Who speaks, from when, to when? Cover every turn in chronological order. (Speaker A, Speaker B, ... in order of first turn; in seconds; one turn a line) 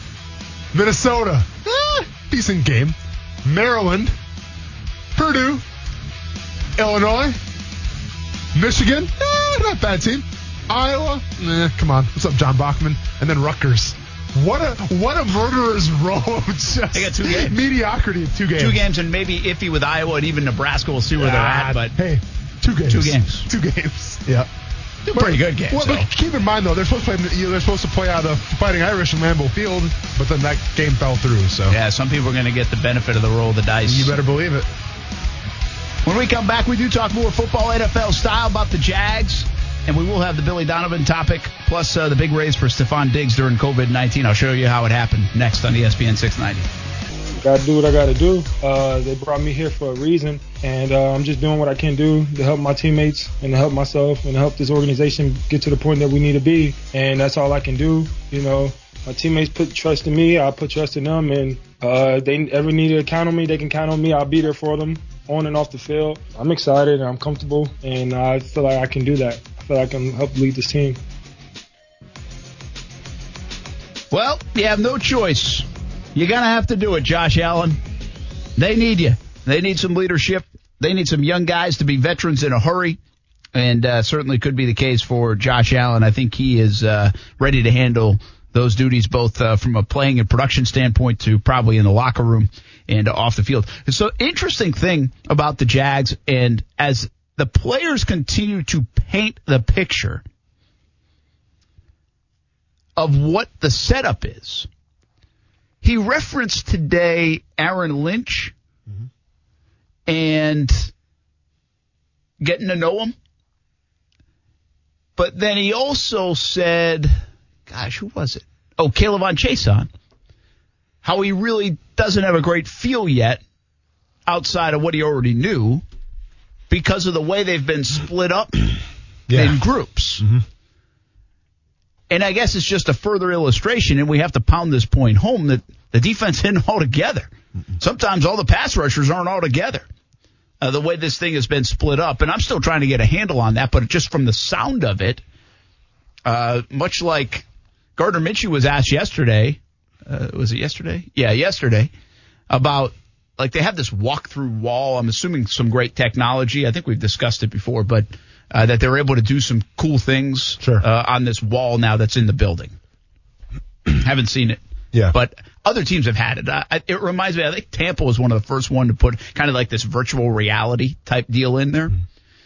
Speaker A: 0.7-4.1
Speaker A: 5.1-5.6
Speaker A: 6.8-7.4
Speaker A: 8.5-18.8
Speaker B: 16.9-17.6
Speaker B: 18.6-21.9
Speaker A: 21.2-24.5
Speaker B: 22.9-23.5
Speaker B: 25.0-26.1
Speaker A: 25.1-31.8
Speaker B: 31.7-34.1
Speaker A: 33.8-34.7
Speaker B: 36.0-46.7
Speaker C: 47.4-71.0
Speaker B: 74.1-77.8
Speaker B: 78.6-83.0
Speaker B: 83.5-100.2
Speaker B: 103.0-104.7
Speaker B: 105.8-108.5
Speaker B: 110.1-110.9
Speaker B: 112.4-113.1
Speaker B: 115.2-119.9
Speaker B: 121.0-123.4
Speaker B: 124.3-125.8
Speaker B: 126.7-128.8
Speaker A: 129.3-129.6
Speaker B: 129.3-130.2
Speaker B: 132.1-139.8
Speaker B: 140.6-145.2
Speaker B: 146.2-147.4
Speaker B: 148.0-151.9
Speaker B: 152.5-162.7
Speaker B: 163.9-164.6
Speaker B: 165.1-172.0